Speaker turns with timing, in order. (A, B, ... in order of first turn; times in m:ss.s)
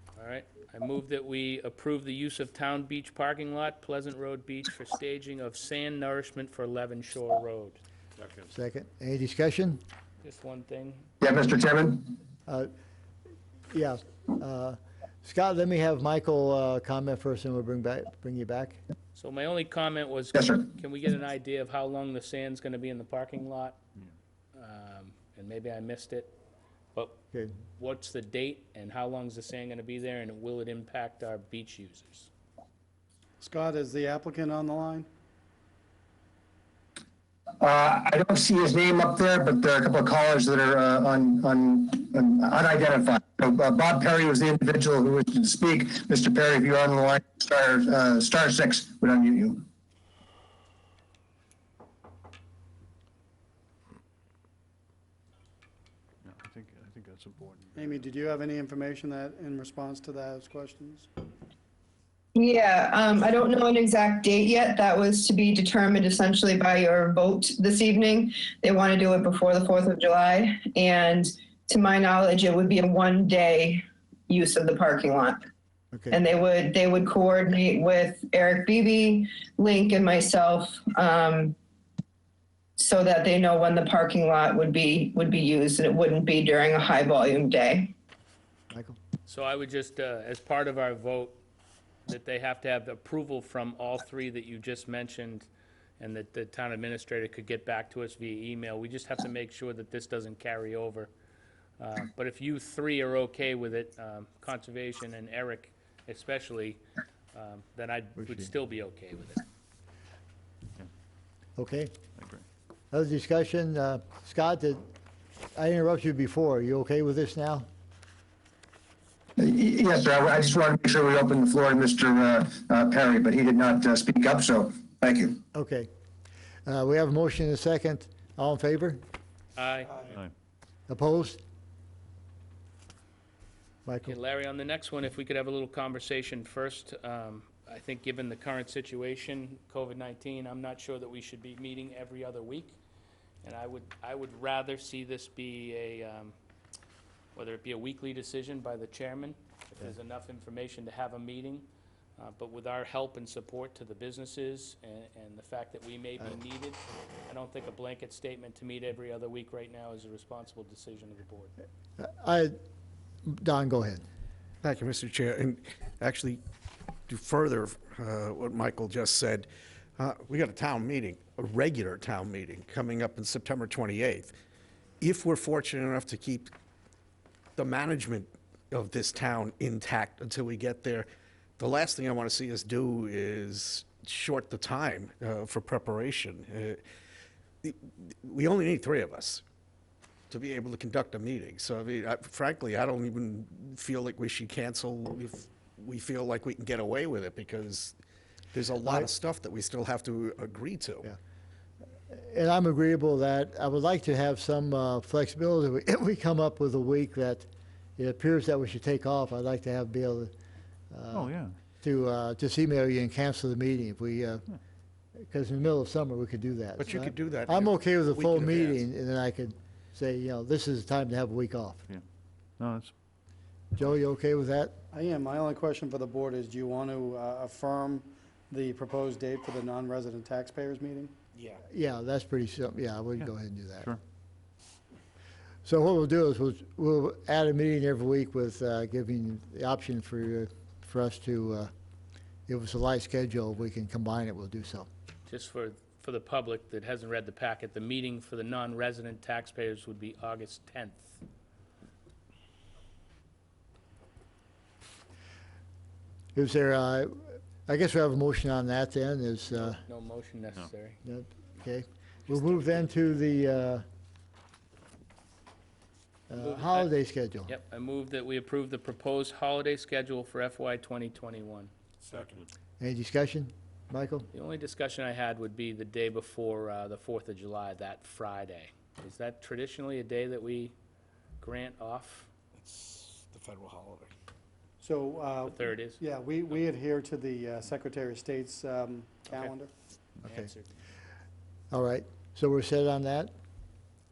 0:00.2-0:07.8 A
0:08.5-0:09.8 B
0:10.2-0:11.1 A
0:11.2-0:12.1 C
0:13.7-0:18.8 B
0:19.1-0:23.8 A
0:20.3-0:20.7 C
0:24.5-0:26.3 A
0:27.8-0:32.3 A
0:33.4-0:35.1 D
0:37.6-0:49.6 C
0:56.2-0:58.2 E
0:57.7-1:01.1 D
1:02.3-1:15.4 F
1:15.9-1:16.2 B
1:16.1-1:21.5 F
1:22.8-1:27.9 F
1:28.7-1:29.0 B
1:29.2-1:31.4 A
1:32.1-1:35.5 A
1:36.0-1:41.1 A
1:41.8-1:46.8 A
1:47.3-1:49.4 A
1:48.2-1:48.5 B
1:51.6-1:51.9 B
1:52.2-1:52.4 E
1:52.9-1:54.8 B
1:55.5-1:57.7 B
1:59.4-2:05.4 C
2:05.5-2:05.9 B
2:06.6-2:09.0 B
2:09.6-2:10.0 A
2:10.9-2:11.4 B
2:13.8-2:14.2 B
2:14.0-2:22.8 A
2:23.4-2:26.3 A
2:27.3-2:31.7 A
2:32.2-2:41.5 A
2:42.0-2:42.5 B
2:43.2-2:44.0 B
2:44.6-2:46.4 G
2:47.1-2:54.4 G
2:55.0-2:56.5 G
2:57.6-3:06.8 G
3:07.6-3:09.4 G
3:10.3-3:18.0 G
3:18.5-3:21.1 G
3:22.1-3:30.3 B
3:30.9-3:34.4 B
3:31.1-3:31.6 E
3:35.2-3:41.8 B
3:36.8-3:38.9 G
3:42.6-3:42.9 E
3:43.8-3:44.7 B
3:44.9-3:51.1 D
3:51.3-3:51.6 G
3:51.7-3:53.9 B
3:53.2-3:54.0 E
3:55.6-4:01.7 B
4:02.5-4:04.9 B
4:05.3-4:11.2 A
4:16.3-4:19.8 B
4:19.5-4:21.0 A
4:21.0-4:23.8 B
4:22.3-4:22.7 A
4:26.3-4:27.5 B
4:26.4-4:26.9 A
4:27.5-4:31.7 A
4:32.1-4:32.4 D
4:32.8-4:34.3 B
4:34.3-4:40.7 A
4:41.4-4:42.3 A
4:42.6-4:44.1 G
4:44.8-4:49.7 D
4:45.4-4:46.0 A
4:49.2-4:49.5 A
4:50.2-4:50.7 A
4:51.7-4:53.3 B